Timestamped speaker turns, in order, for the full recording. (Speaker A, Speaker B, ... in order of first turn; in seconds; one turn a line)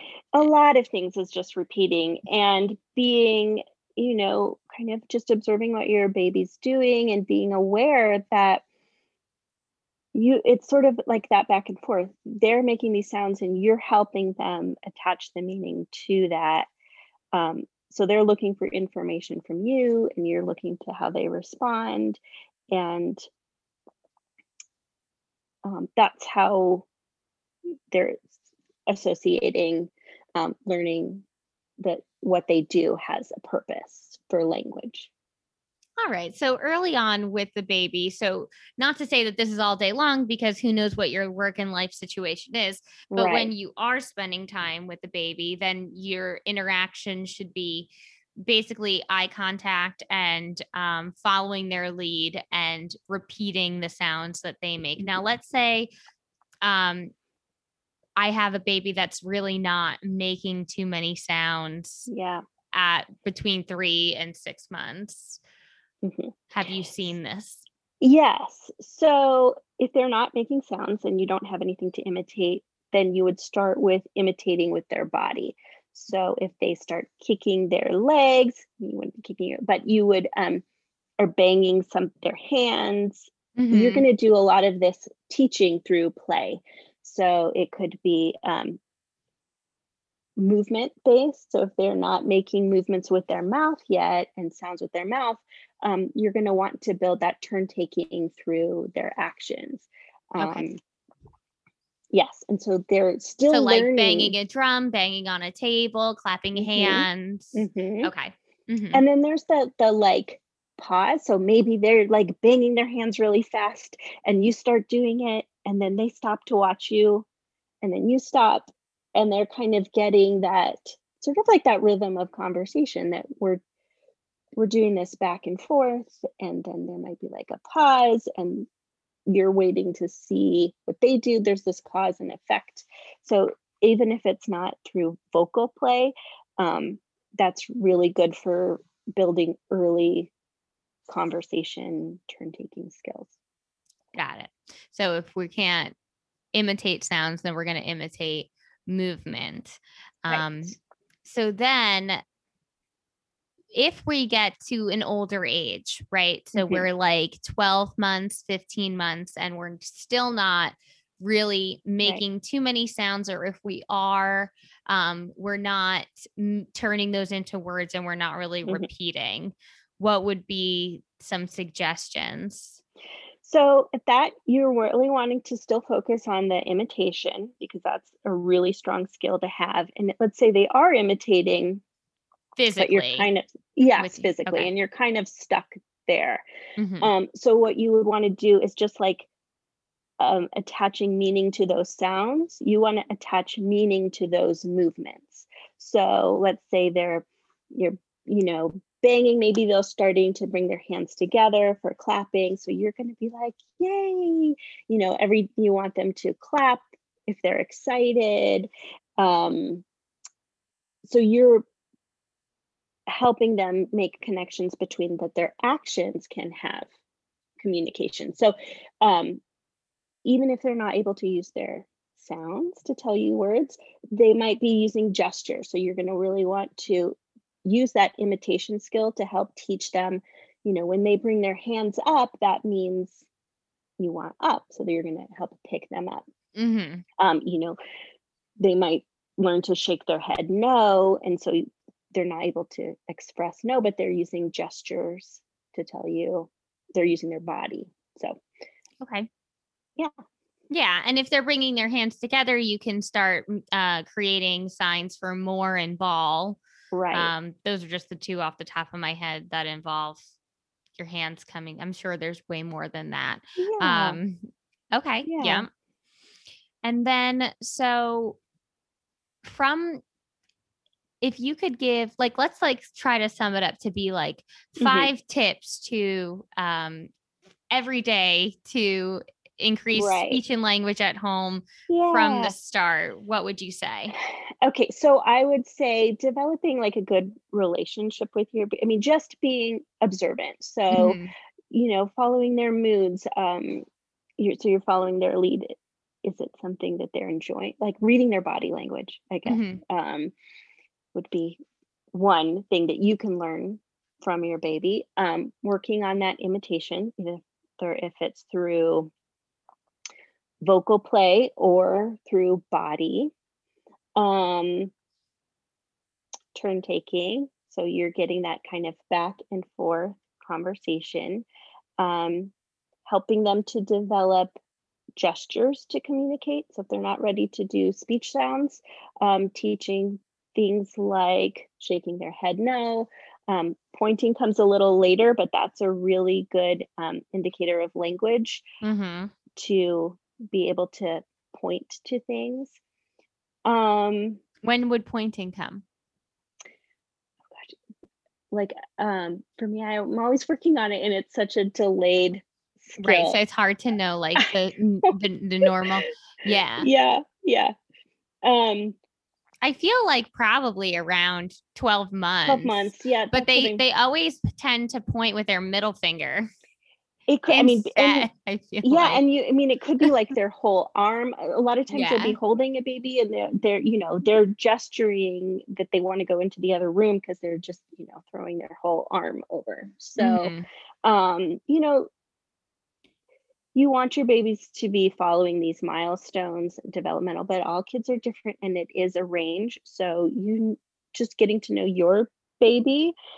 Speaker A: 0.3-8.6
Speaker A: 10.1-16.7
Speaker A: 17.3-23.2
Speaker A: 25.6-26.9
Speaker A: 27.9-28.3
Speaker A: 28.9-31.2
Speaker A: 31.8-35.1
Speaker B: 36.0-55.9
Speaker A: 43.1-43.5
Speaker B: 56.6-57.1
Speaker B: 58.2-62.1
Speaker A: 62.1-62.4
Speaker B: 62.7-65.4
Speaker A: 66.0-66.3
Speaker B: 66.5-67.6
Speaker A: 68.0-80.6
Speaker A: 81.2-88.8
Speaker B: 83.5-84.0
Speaker A: 90.4-100.8
Speaker B: 100.4-100.7
Speaker A: 102.1-104.3
Speaker B: 103.5-109.0
Speaker A: 106.5-108.1
Speaker A: 108.9-117.2
Speaker A: 117.8-123.6
Speaker A: 124.5-128.7
Speaker A: 129.2-140.3
Speaker A: 141.1-143.3
Speaker B: 144.1-145.9
Speaker B: 146.5-152.2
Speaker B: 153.7-172.8
Speaker A: 156.5-156.8
Speaker A: 173.4-181.8
Speaker B: 182.6-183.3
Speaker A: 182.8-186.4
Speaker B: 184.0-184.7
Speaker B: 186.8-187.1
Speaker A: 187.0-189.3
Speaker A: 190.2-209.8
Speaker A: 211.0-211.7
Speaker A: 213.1-216.9
Speaker A: 217.6-219.4
Speaker A: 220.2-233.2
Speaker A: 234.0-236.2
Speaker B: 236.5-237.0
Speaker A: 237.2-237.8
Speaker A: 238.6-248.4
Speaker B: 249.0-249.3
Speaker B: 250.7-256.6
Speaker A: 256.9-257.3
Speaker B: 257.1-260.3
Speaker B: 261.0-265.7
Speaker A: 263.6-264.2
Speaker A: 265.2-265.6
Speaker B: 266.8-268.4
Speaker B: 269.4-270.0
Speaker B: 271.2-277.1
Speaker A: 274.8-275.1
Speaker B: 277.7-284.1
Speaker A: 279.9-280.4
Speaker A: 281.9-282.5
Speaker A: 284.2-291.2
Speaker B: 290.9-291.3
Speaker A: 291.7-293.9
Speaker A: 294.4-300.3
Speaker B: 299.4-299.8
Speaker A: 301.1-301.6
Speaker A: 302.1-309.1
Speaker A: 310.6-313.3
Speaker A: 314.1-314.9
Speaker A: 316.5-321.4
Speaker A: 322.0-322.5
Speaker A: 323.0-324.5
Speaker A: 325.1-338.6
Speaker B: 338.8-339.3
Speaker A: 339.6-342.8
Speaker A: 343.6-344.4
Speaker B: 344.6-345.8
Speaker A: 347.5-347.8
Speaker A: 348.5-353.4
Speaker B: 353.0-356.9
Speaker A: 356.8-357.7
Speaker A: 358.4-358.9
Speaker B: 359.6-366.5
Speaker A: 362.4-363.8
Speaker A: 367.3-368.3
Speaker B: 367.5-369.2
Speaker A: 368.8-382.1
Speaker B: 371.9-372.4
Speaker B: 380.2-380.6
Speaker A: 383.7-393.1